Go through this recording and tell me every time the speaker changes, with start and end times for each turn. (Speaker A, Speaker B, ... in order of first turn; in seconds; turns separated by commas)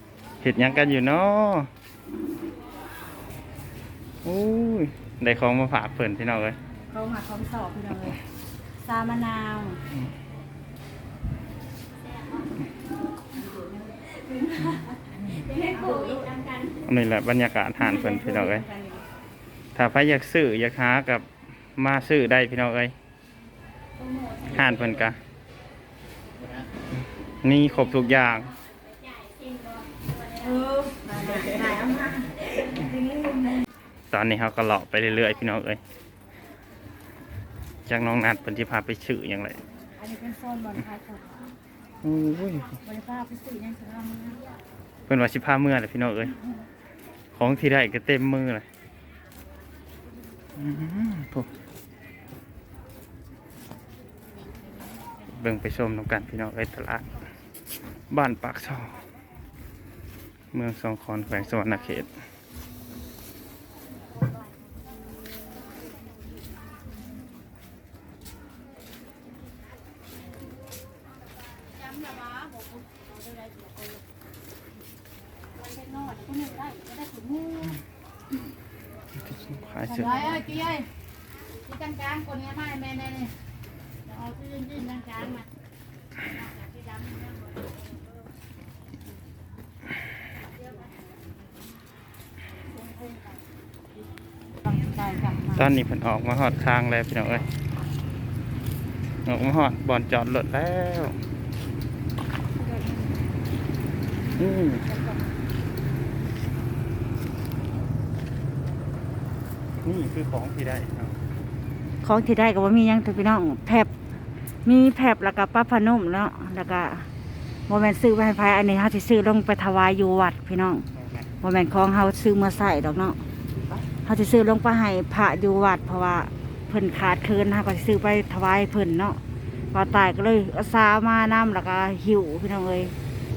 Speaker A: 0.4-1.7, Speaker A: 4.2-6.5, Speaker B: 6.9-8.2, Speaker B: 8.8-9.8, Speaker C: 12.1-12.5, Speaker B: 13.3-16.3, Speaker C: 15.2-16.8, Speaker A: 16.9-18.6, Speaker B: 17.8-19.0, Speaker A: 19.7-22.9, Speaker C: 24.0-24.9, Speaker A: 24.5-25.2, Speaker A: 27.4-28.5, Speaker C: 28.6-30.6, Speaker B: 30.4-33.6, Speaker A: 34.1-35.8, Speaker A: 37.9-39.6, Speaker B: 40.0-41.5, Speaker A: 42.0-42.7, Speaker B: 42.8-44.4, Speaker A: 45.1-46.3, Speaker A: 47.3-48.6, Speaker A: 50.6-51.5, Speaker A: 55.3-57.2, Speaker A: 58.1-58.9, Speaker A: 60.5-62.1, Speaker B: 75.6-77.7, Speaker A: 79.2-80.7, Speaker B: 80.0-80.9, Speaker B: 81.7-83.3, Speaker B: 84.1-85.4, Speaker B: 94.6-95.6, Speaker A: 95.5-97.4, Speaker A: 99.2-101.2, Speaker B: 102.6-103.1, Speaker A: 104.4-104.8, Speaker B: 104.9-105.2, Speaker A: 109.8-111.1, Speaker B: 112.0-113.9, Speaker B: 114.6-117.1, Speaker B: 117.7-120.8, Speaker B: 121.4-123.2, Speaker B: 124.0-129.2, Speaker B: 129.7-132.9